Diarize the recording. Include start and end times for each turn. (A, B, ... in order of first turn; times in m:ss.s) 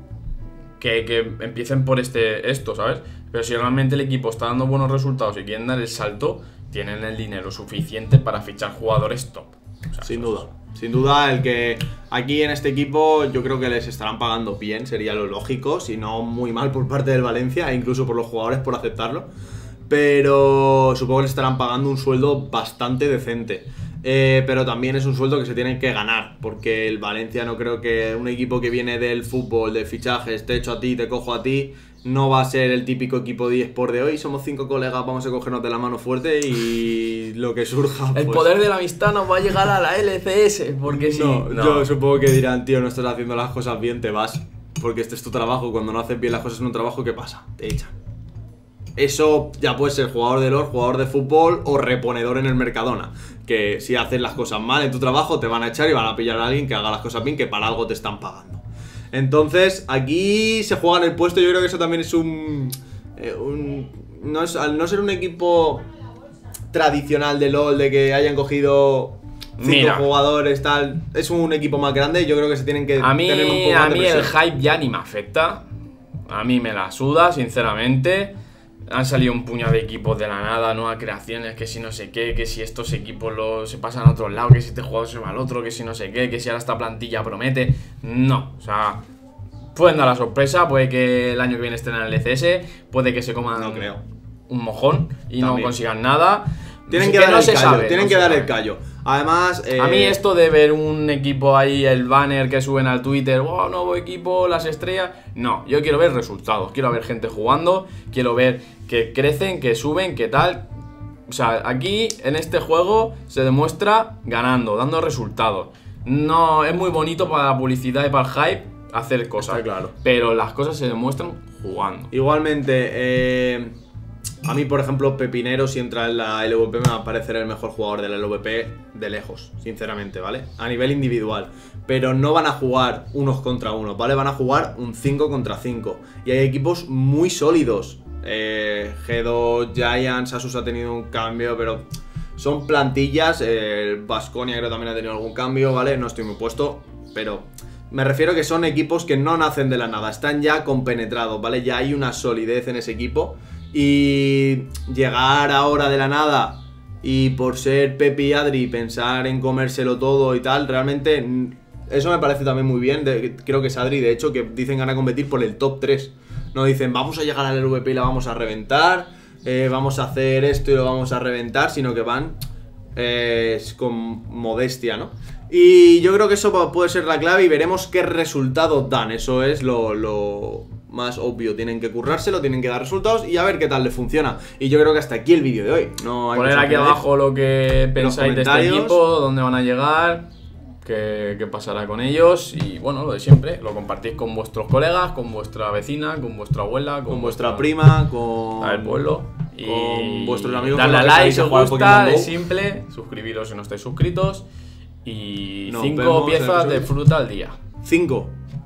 0:00.8-0:10.5 A
0:10.0-0:19.3 B
0:19.9-0:38.5 B
0:38.1-0:41.9 A
0:40.9-0:47.9 B
0:49.0-1:05.8 B
1:06.7-1:14.3 B
1:09.6-1:10.1 A
1:13.0-1:15.6 A
1:16.3-1:18.3 A
1:18.9-1:29.0 A
1:29.8-1:33.9 A
1:33.6-1:34.0 B
1:34.5-1:38.5 A
1:35.4-1:35.7 B
1:36.9-1:40.2 B
1:39.8-1:50.7 A
1:51.3-2:02.1 A
1:59.4-1:59.9 B
2:02.1-2:03.7 B
2:04.4-2:21.8 B
2:22.4-2:52.4 B
2:53.0-3:07.0 B
3:06.3-3:10.2 A
3:08.0-3:09.0 B
3:10.8-3:17.7 A
3:17.1-3:19.1 B
3:18.6-3:24.4 A
3:19.6-3:22.3 B
3:25.0-3:27.6 A
3:25.7-3:26.9 B
3:27.8-3:28.3 B